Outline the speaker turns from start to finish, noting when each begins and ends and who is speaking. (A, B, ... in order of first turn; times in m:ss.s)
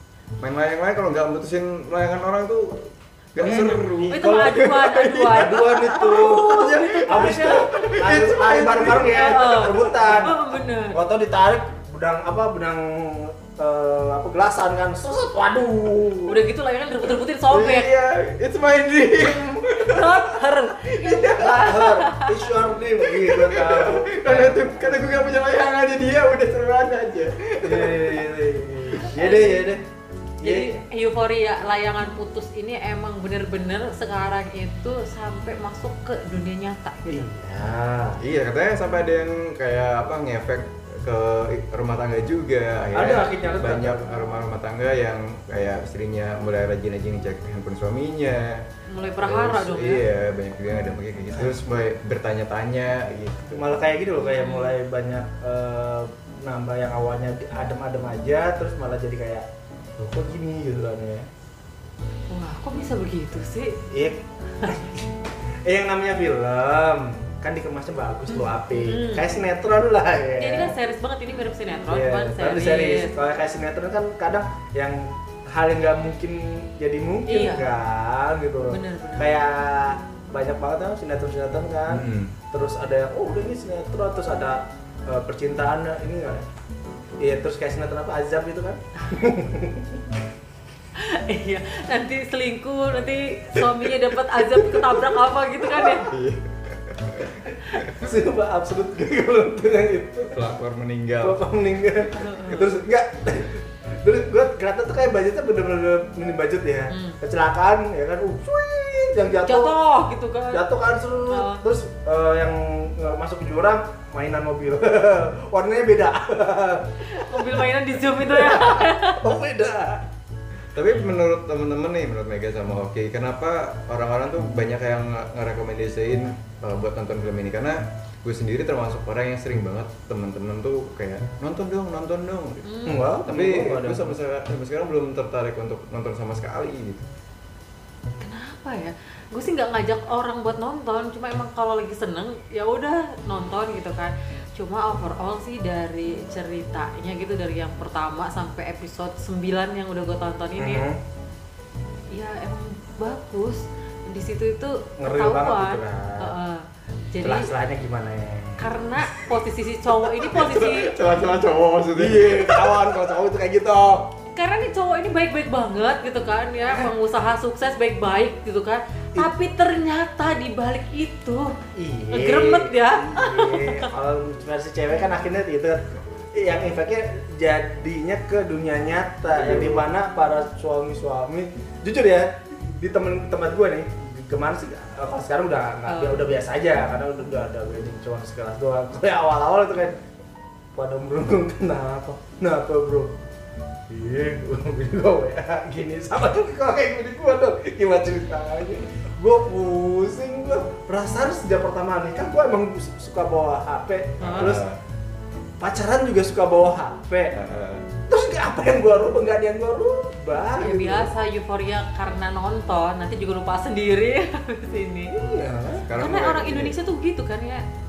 0:00.4-0:10.1 A
0:03.4-0:04.7 B
0:04.1-0:07.7 C
0:05.3-0:10.4 B
0:09.1-0:11.0 C
0:10.9-0:16.4 B
0:16.3-0:17.9 C
0:17.5-0:20.4 A
0:19.8-0:22.5 C
0:20.8-0:24.9 B
0:23.0-0:28.3 A
0:27.6-0:29.8 B
0:29.1-0:29.7 C
0:30.4-0:30.8 B
0:30.4-0:37.3 C
0:37.1-0:38.2 B
0:38.2-0:48.7 A
0:42.9-0:44.2 B
0:43.2-0:43.6 C
0:48.9-0:50.1 C
0:49.2-0:53.7 A
0:53.5-0:59.4 B
0:54.3-0:54.8 C
1:00.0-1:01.3 B
1:02.3-1:03.8 C
1:03.9-1:05.1 B
1:05.6-1:10.7 B
1:08.3-1:09.4 C
1:10.4-1:13.1 C
1:11.9-1:26.4 B
1:17.3-1:17.7 C
1:18.7-1:19.4 C
1:21.9-1:22.3 A
1:27.2-1:30.0 B
1:31.0-1:36.1 C
1:36.0-1:37.8 A
1:37.9-1:40.4 B
1:40.3-1:41.4 A
1:41.2-1:49.7 B
1:42.2-1:42.8 C
1:46.9-1:47.2 C
1:49.5-1:50.6 C
1:50.5-1:57.6 B
1:51.3-1:51.6 C
1:57.1-1:59.2 C
1:58.1-2:00.0 B
2:00.7-2:12.7 A
2:12.6-2:13.1 C
2:12.8-2:14.1 B
2:13.2-2:17.1 A
2:18.2-2:30.8 C
2:30.6-2:31.0 B
2:32.1-2:37.5 C
2:35.0-2:36.3 B
2:37.2-2:38.6 B
2:38.6-2:41.0 C
2:40.2-2:43.0 A
2:42.0-2:44.1 B
2:44.4-2:51.6 C
2:51.8-3:10.0 B
2:52.1-2:53.9 C
2:59.3-2:59.9 A
3:05.9-3:06.4 C
3:10.8-3:13.1 B
3:13.9-3:24.6 B
3:24.2-3:24.8 A
3:24.2-3:24.6 C
3:25.6-3:27.4 B
3:27.3-3:27.9 A
3:28.1-3:31.1 B
3:30.6-3:35.2 C
3:35.1-3:35.8 B
3:35.8-3:36.8 A
3:36.0-3:37.6 C